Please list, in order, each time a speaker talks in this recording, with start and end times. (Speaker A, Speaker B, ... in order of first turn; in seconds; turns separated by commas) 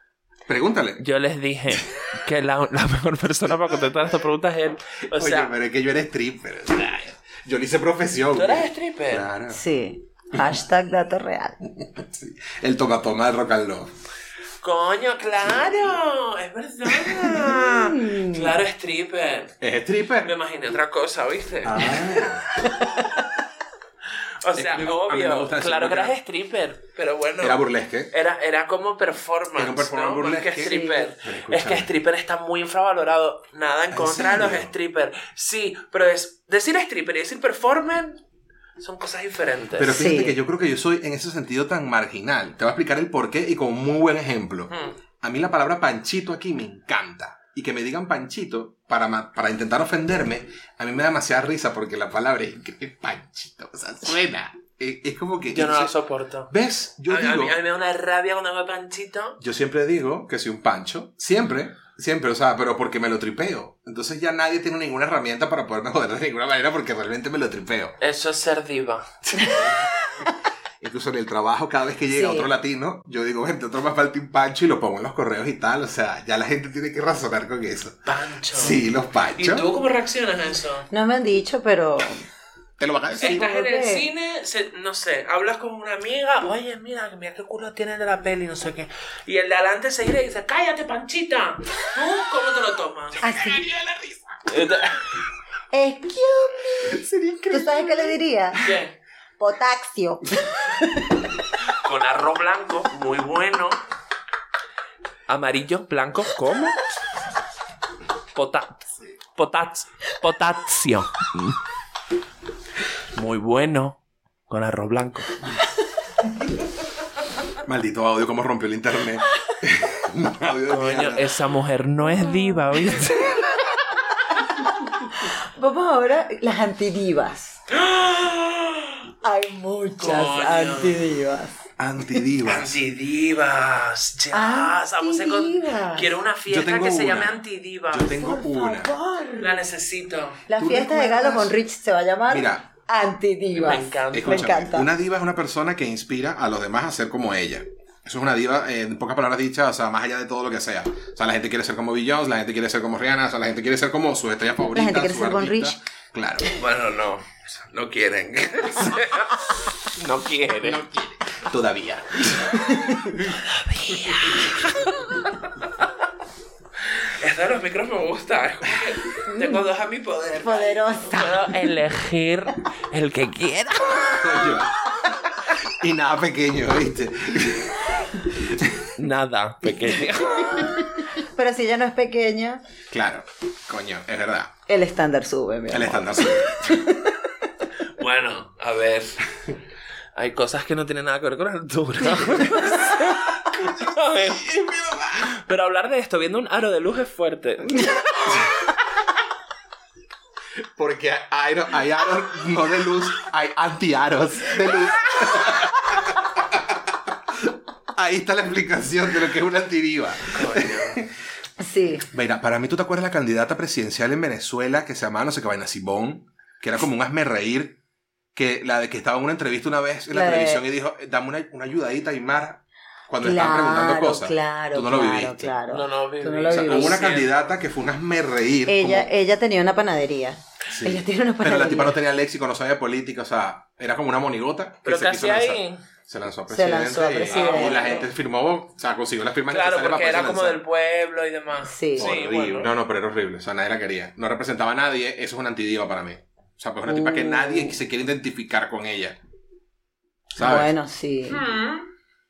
Speaker A: 0.5-1.0, Speaker B: 1.0-5.5, Speaker A: 5.1-9.6, Speaker B: 8.3-9.3, Speaker C: 9.5-11.6, Speaker A: 11.8-13.9, Speaker B: 14.6-19.6, Speaker A: 16.9-17.2, Speaker C: 17.6-18.5, Speaker A: 19.6-20.3, Speaker B: 20.2-22.3, Speaker A: 21.6-22.5, Speaker B: 24.4-38.2, Speaker A: 24.5-26.1, Speaker A: 27.4-28.1, Speaker A: 29.6-31.9, Speaker C: 30.6-31.1, Speaker A: 33.9-34.7, Speaker B: 38.8-40.0, Speaker A: 39.8-55.9, Speaker C: 39.9-40.4, Speaker B: 44.7-44.9, Speaker B: 55.5-56.5, Speaker A: 56.5-57.6, Speaker B: 57.1-59.4, Speaker A: 59.4-68.0, Speaker B: 68.0-69.5, Speaker A: 69.3-70.1, Speaker A: 70.8-78.0, Speaker C: 72.1-72.5, Speaker B: 78.0-78.8, Speaker A: 78.5-79.7, Speaker B: 79.3-80.9, Speaker C: 80.9-82.2, Speaker A: 82.8-83.5, Speaker B: 83.2-93.5, Speaker C: 83.2-84.1, Speaker C: 93.2-93.7, Speaker A: 93.2-94.2, Speaker B: 94.5-95.0, Speaker C: 95.7-98.7, Speaker A: 96.8-98.7, Speaker B: 98.6-98.9, Speaker C: 99.4-101.3, Speaker B: 101.7-103.8, Speaker B: 105.3-106.8, Speaker B: 108.3-111.5, Speaker B: 113.1-115.4, Speaker A: 117.6-121.3, Speaker B: 120.7-123.3, Speaker C: 122.9-123.3, Speaker C: 125.1-127.6, Speaker B: 127.7-129.0, Speaker C: 129.2-131.6, Speaker B: 130.0-131.0, Speaker A: 131.8-132.8, Speaker B: 132.4-138.2, Speaker C: 134.3-136.1, Speaker A: 136.5-138.9, Speaker C: 138.2-139.6, Speaker B: 139.4-140.4, Speaker C: 140.5-144.9, Speaker A: 140.6-141.6, Speaker A: 142.3-142.7, Speaker B: 143.5-144.6, Speaker A: 144.1-156.5, Speaker C: 154.7-155.8, Speaker B: 156.5-160.8, Speaker A: 160.6-163.3, Speaker B: 163.4-165.9, Speaker B: 167.0-174.4, Speaker C: 169.3-169.6, Speaker C: 170.4-171.6, Speaker A: 174.2-174.9, Speaker A: 175.4-178.9, Speaker B: 179.0-180.8, Speaker C: 181.2-182.6, Speaker A: 182.9-184.5, Speaker C: 184.7-187.2, Speaker A: 185.7-186.8, Speaker B: 188.0-189.3, Speaker B: 190.1-197.9, Speaker A: 194.3-195.2, Speaker A: 200.8-211.1, Speaker B: 210.3-211.0, Speaker C: 211.6-212.1, Speaker A: 212.1-217.8, Speaker A: 218.3-225.5, Speaker C: 220.1-220.6, Speaker C: 223.2-227.0, Speaker B: 225.7-227.5, Speaker A: 226.5-229.1, Speaker C: 228.7-232.0, Speaker A: 230.7-240.6, Speaker B: 234.8-235.8, Speaker C: 236.5-238.1, Speaker B: 237.3-238.1, Speaker B: 239.5-242.7, Speaker C: 241.6-242.2, Speaker A: 242.0-249.2, Speaker C: 246.9-247.8, Speaker A: 250.3-250.7, Speaker C: 250.3-251.4, Speaker B: 251.3-251.9